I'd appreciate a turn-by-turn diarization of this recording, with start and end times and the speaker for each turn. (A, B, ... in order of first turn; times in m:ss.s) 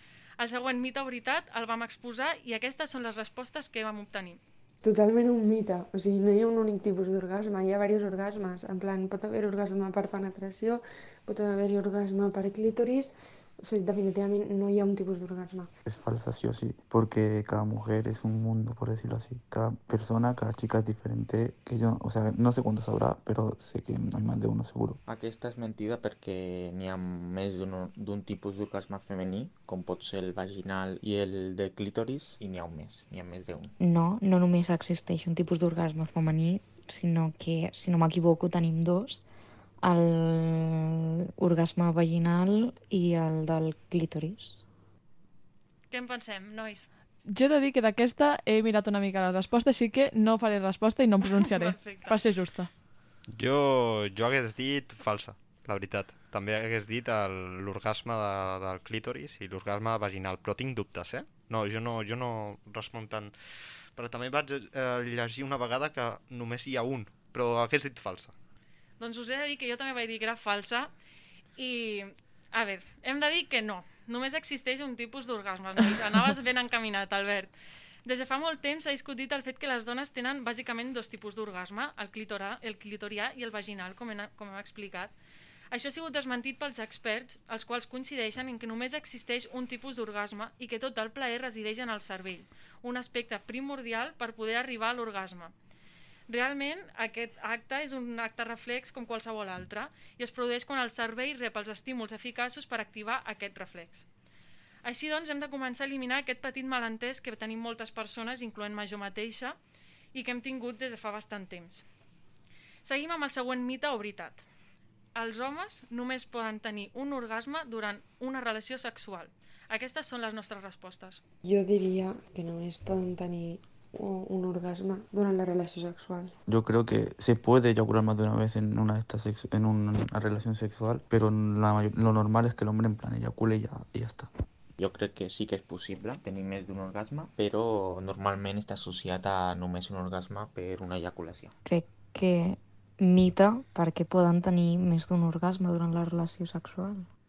0:00.4-0:04.4 A
0:04.8-0:15.7 B
0:15.8-0:25.0 C
0:25.1-0:33.7 D
0:33.8-0:39.2 E
0:39.8-0:44.6 E
0:45.9-0:46.9 A
0:47.3-0:52.7 F
0:51.2-0:52.2 A
0:53.3-1:03.3 G
1:03.9-1:08.3 G
1:09.0-1:10.9 A
1:11.6-1:17.5 A
1:18.0-1:25.1 A
1:25.7-1:35.5 A
1:36.3-1:44.0 A
1:44.8-1:49.6 A
1:50.1-1:51.8 A
1:52.8-1:54.4 A
1:55.2-2:01.2 A
2:01.4-2:06.3 B
2:06.5-2:14.3 C
2:14.8-2:21.5 D
2:21.6-2:27.0 E